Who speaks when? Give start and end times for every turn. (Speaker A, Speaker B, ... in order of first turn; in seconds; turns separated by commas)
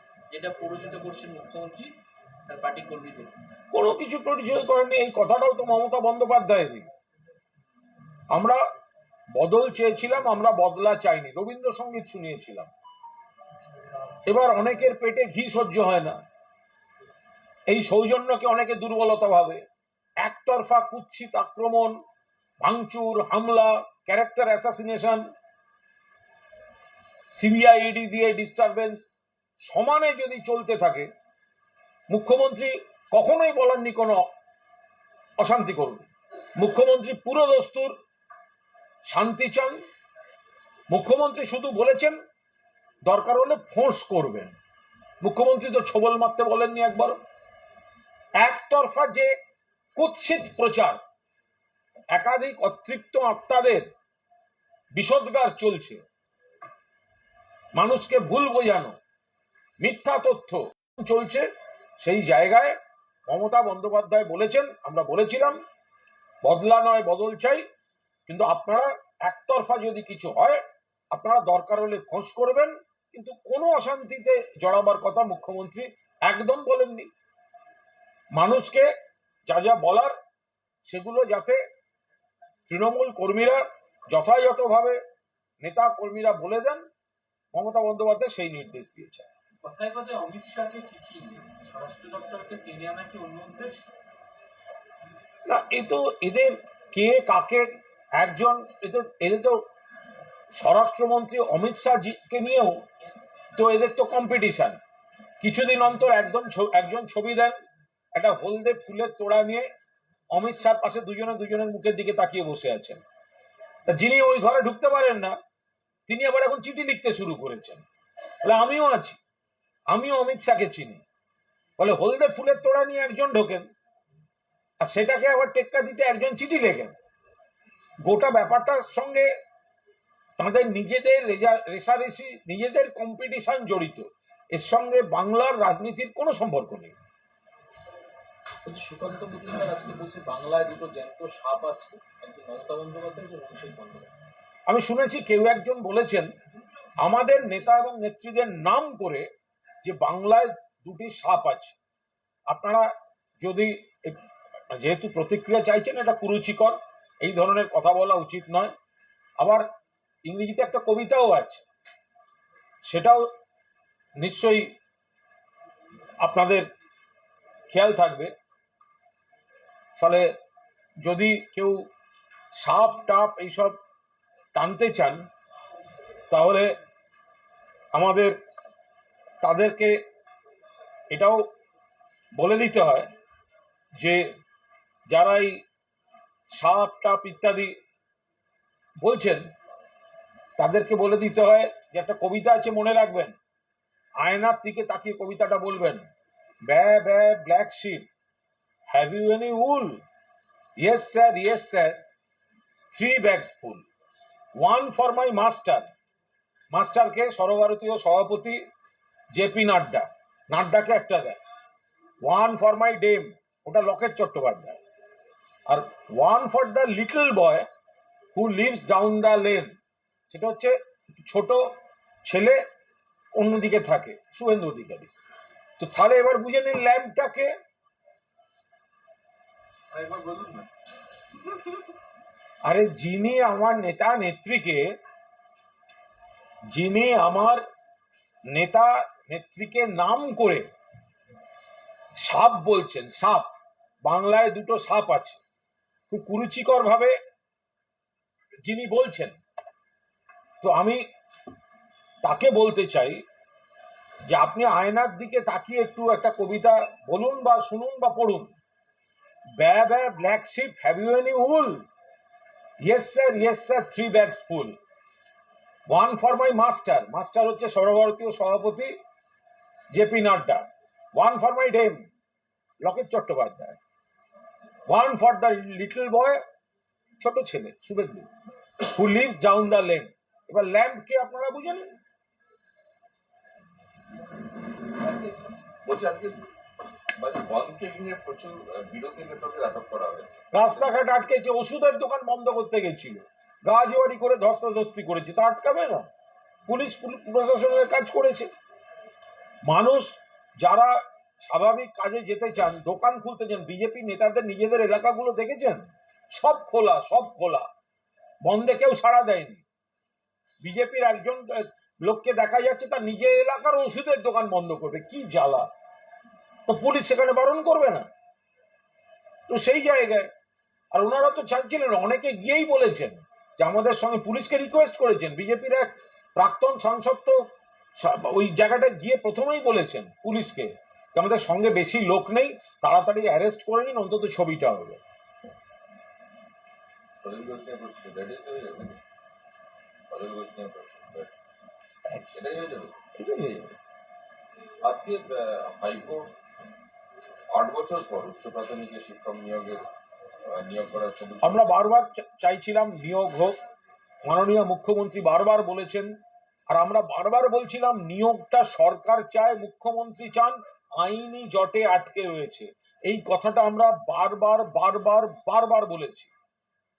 Speaker A: 0.3-1.9, Speaker A: 2.5-3.4, Speaker B: 3.7-6.9, Speaker B: 8.3-8.6, Speaker B: 9.3-12.7, Speaker B: 14.2-16.2, Speaker B: 17.7-19.6, Speaker B: 20.2-21.9, Speaker B: 22.6-25.2, Speaker B: 27.3-31.1, Speaker B: 32.1-34.2, Speaker B: 35.4-37.9, Speaker B: 39.1-39.8, Speaker B: 40.9-42.1, Speaker B: 43.0-44.5, Speaker B: 45.2-47.1, Speaker B: 48.4-49.3, Speaker B: 50.0-51.0, Speaker B: 52.1-53.9, Speaker B: 54.9-56.0, Speaker B: 57.7-58.9, Speaker B: 59.8-61.5, Speaker B: 62.0-65.6, Speaker B: 66.4-67.6, Speaker B: 68.3-77.1, Speaker B: 78.3-78.9, Speaker B: 79.5-80.1, Speaker B: 80.8-81.6, Speaker B: 82.7-85.0, Speaker B: 85.6-86.8, Speaker B: 87.5-89.3, Speaker C: 89.7-93.8, Speaker B: 95.5-99.6, Speaker B: 100.5-102.8, Speaker B: 103.5-104.8, Speaker B: 105.4-107.5, Speaker B: 108.1-109.6, Speaker B: 110.3-113.0, Speaker B: 113.9-115.3, Speaker B: 116.1-117.8, Speaker B: 118.4-119.2, Speaker B: 119.9-121.0, Speaker B: 121.8-123.7, Speaker B: 124.8-126.9, Speaker B: 128.0-129.3, Speaker B: 130.4-136.9, Speaker D: 138.7-144.1, Speaker B: 144.7-146.3, Speaker B: 147.0-149.3, Speaker B: 149.8-151.8, Speaker B: 152.5-152.9, Speaker B: 153.4-154.2, Speaker B: 154.7-158.7, Speaker B: 159.4-159.6, Speaker B: 160.2-161.6, Speaker B: 162.8-163.2, Speaker B: 164.2-164.7, Speaker B: 166.2-166.7, Speaker B: 167.7-168.3, Speaker B: 170.0-170.3, Speaker B: 171.0-171.8, Speaker B: 172.6-173.8, Speaker B: 174.5-175.2, Speaker B: 176.3-176.7, Speaker B: 177.9-178.3, Speaker B: 179.4-180.0, Speaker B: 181.1-181.4, Speaker B: 182.3-183.1, Speaker B: 184.0-184.3, Speaker B: 185.1-185.6, Speaker B: 186.5-187.7, Speaker B: 189.0-189.5, Speaker B: 190.6-193.3, Speaker B: 194.2-196.0, Speaker B: 196.7-198.1, Speaker B: 198.9-200.0, Speaker B: 200.8-202.0, Speaker B: 202.9-203.8, Speaker B: 204.6-205.9, Speaker B: 206.7-208.6, Speaker B: 209.3-211.4, Speaker B: 212.2-214.8, Speaker B: 215.7-217.7, Speaker B: 218.3-219.7, Speaker B: 220.3-221.7, Speaker B: 222.2-222.6, Speaker B: 223.3-225.1, Speaker B: 225.8-227.5, Speaker A: 229.9-230.7, Speaker B: 232.6-234.9, Speaker B: 236.7-237.6, Speaker B: 238.5-240.7, Speaker B: 242.2-243.5, Speaker B: 244.0-245.4, Speaker B: 246.1-247.1, Speaker B: 248.6-249.4, Speaker B: 250.6-251.0, Speaker B: 252.2-253.2, Speaker B: 254.3-258.5, Speaker B: 259.6-261.8, Speaker B: 262.8-264.7, Speaker B: 265.9-268.9, Speaker B: 269.9-272.1, Speaker B: 272.8-273.8, Speaker B: 274.9-276.4, Speaker B: 277.2-278.3, Speaker B: 278.8-281.9, Speaker A: 285.1-285.5, Speaker E: 285.8-286.5, Speaker E: 287.1-290.4, Speaker B: 290.5-296.1, Speaker B: 296.7-298.5, Speaker B: 299.6-307.7, Speaker B: 308.4-309.6, Speaker B: 310.6-315.7, Speaker B: 316.7-318.1, Speaker B: 319.5-320.3, Speaker B: 320.9-327.4, Speaker B: 328.0-335.0, Speaker E: 337.2-339.0, Speaker E: 340.1-341.3, Speaker B: 342.1-342.4, Speaker E: 342.3-342.9, Speaker B: 343.1-343.7, Speaker E: 344.8-346.3, Speaker E: 347.5-349.8, Speaker E: 350.5-351.7, Speaker B: 351.4-353.6, Speaker B: 354.2-356.1, Speaker B: 356.7-366.3